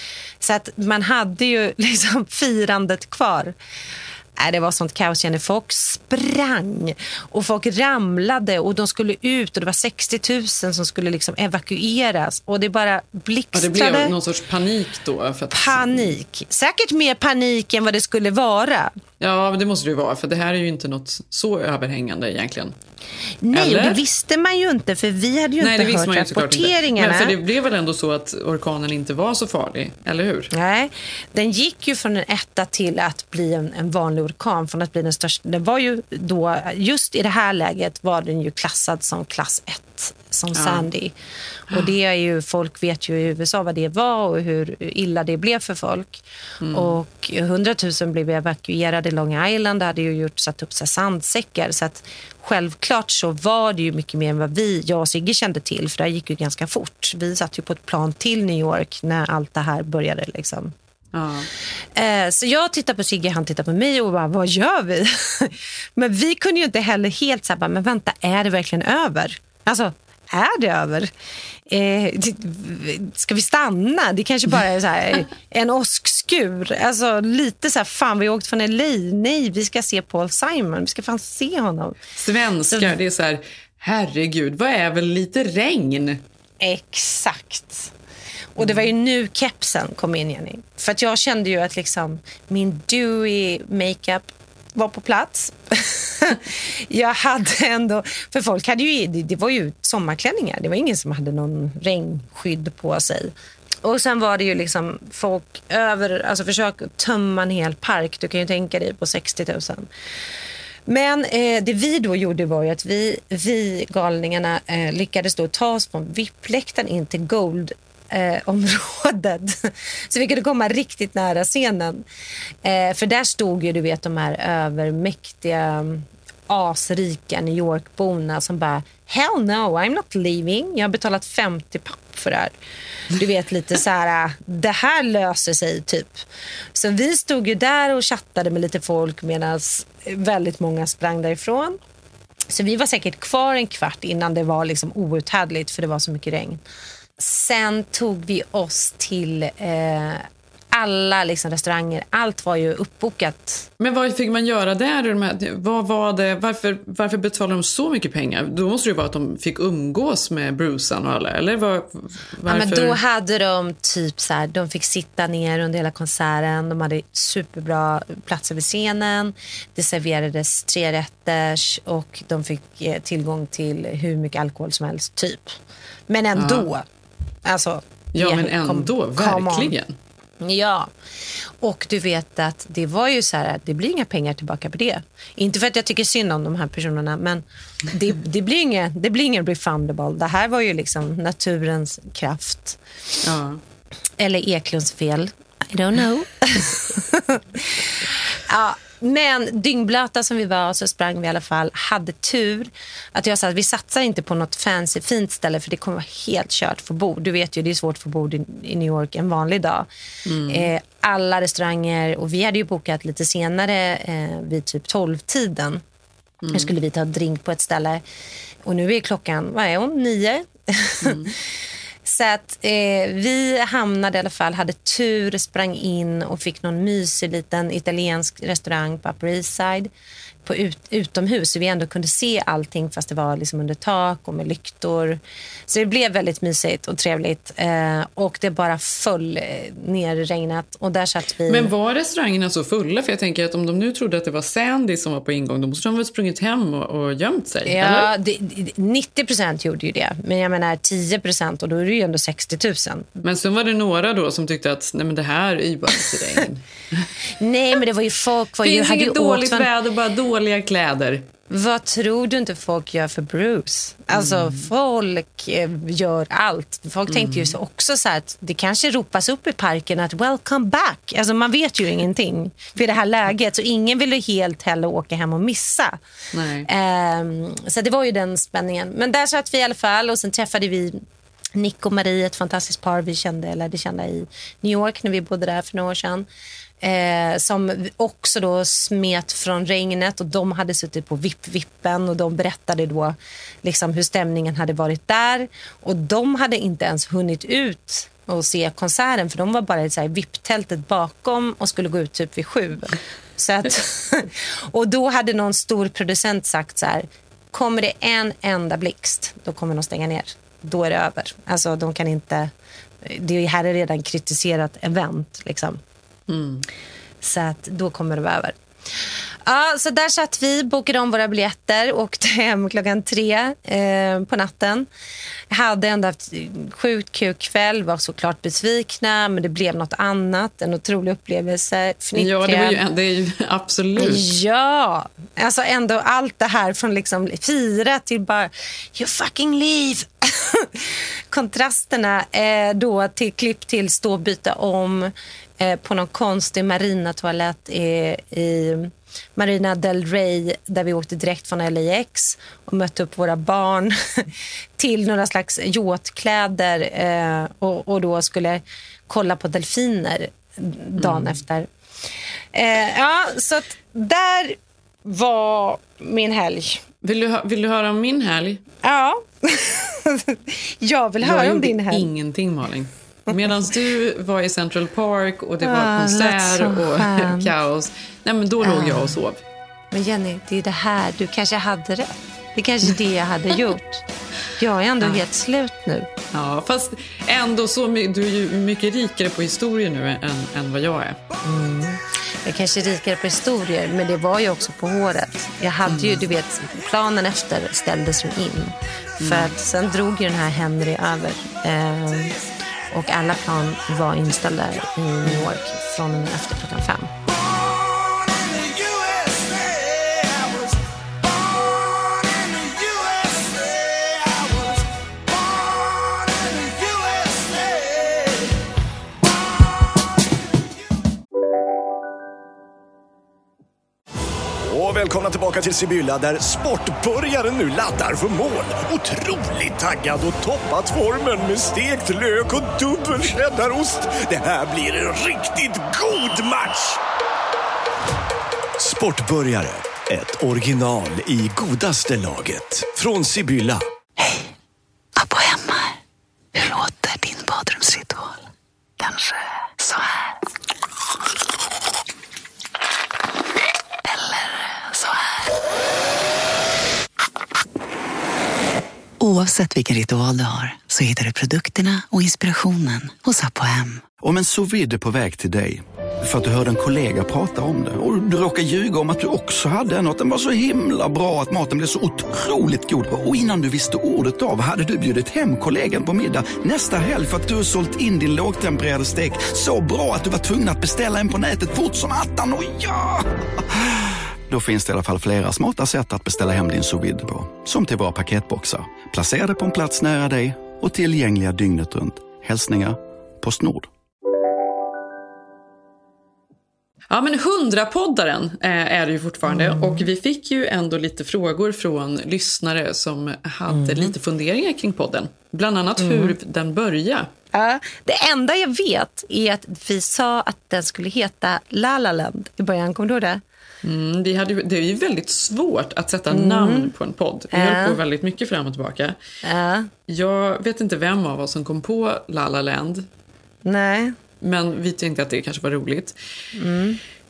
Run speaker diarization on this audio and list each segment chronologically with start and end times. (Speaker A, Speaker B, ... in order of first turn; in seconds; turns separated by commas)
Speaker A: 0.4-3.6, Speaker A: 4.4-14.1, Speaker B: 13.5-16.1, Speaker A: 15.5-18.9, Speaker B: 19.2-22.7, Speaker A: 23.4-27.4, Speaker B: 23.5-24.0, Speaker B: 25.6-30.5, Speaker A: 30.5-41.1, Speaker B: 40.5-40.9, Speaker A: 41.7-60.7, Speaker B: 46.6-47.0, Speaker B: 61.1-61.5, Speaker A: 61.9-71.1, Speaker A: 71.7-82.0, Speaker B: 82.2-86.2, Speaker A: 86.6-87.9, Speaker A: 88.6-109.9, Speaker B: 88.6-88.9, Speaker A: 110.9-122.0, Speaker A: 122.6-132.6, Speaker A: 133.1-141.8, Speaker A: 142.5-146.6, Speaker A: 147.2-153.7, Speaker B: 153.8-163.0, Speaker A: 162.4-176.9, Speaker B: 176.3-176.7, Speaker A: 177.4-179.7, Speaker B: 178.1-179.9, Speaker A: 180.4-180.9, Speaker A: 181.6-192.8, Speaker B: 193.2-193.6, Speaker A: 194.2-209.9, Speaker B: 210.2-210.7, Speaker A: 210.5-215.8, Speaker B: 216.4-216.7, Speaker A: 216.5-218.0, Speaker A: 218.6-221.3, Speaker B: 221.0-221.3, Speaker A: 222.0-229.9, Speaker A: 230.4-241.7, Speaker B: 241.5-248.1, Speaker A: 247.6-253.1, Speaker B: 253.2-257.1, Speaker A: 257.4-259.7, Speaker B: 258.6-261.3, Speaker A: 261.5-276.0, Speaker B: 264.1-264.7, Speaker B: 267.1-267.6, Speaker B: 276.3-276.7, Speaker A: 276.6-281.0, Speaker A: 281.6-286.3, Speaker A: 286.8-315.8, Speaker B: 316.3-316.6, Speaker A: 317.2-324.9, Speaker A: 325.5-332.8, Speaker B: 332.1-334.2, Speaker A: 334.0-361.7, Speaker B: 361.0-361.4, Speaker A: 362.5-366.8, Speaker B: 367.0-368.6, Speaker A: 368.8-372.1, Speaker B: 371.2-379.4, Speaker A: 375.6-377.5, Speaker A: 378.6-379.2, Speaker A: 379.9-384.1, Speaker A: 384.6-386.1, Speaker B: 386.3-391.2, Speaker A: 391.4-402.4, Speaker B: 395.9-396.2, Speaker B: 399.2-399.5, Speaker A: 402.9-407.1, Speaker C: 426.5-426.9, Speaker C: 427.8-428.4, Speaker C: 433.6-433.9, Speaker C: 435.4-436.4, Speaker C: 438.9-439.2, Speaker D: 445.2-445.9, Speaker D: 446.6-448.4, Speaker D: 449.0-450.1, Speaker D: 454.1-455.3, Speaker D: 459.2-464.1, Speaker E: 464.2-483.9, Speaker E: 484.5-493.9, Speaker B: 497.1-507.3, Speaker A: 499.5-500.1, Speaker A: 503.7-504.1, Speaker A: 506.0-506.4, Speaker A: 507.5-513.4, Speaker B: 513.8-519.1, Speaker A: 516.3-516.9, Speaker A: 517.5-518.0, Speaker A: 519.4-519.9, Speaker B: 520.1-523.1, Speaker A: 523.6-524.1, Speaker B: 524.4-526.1, Speaker A: 526.5-527.0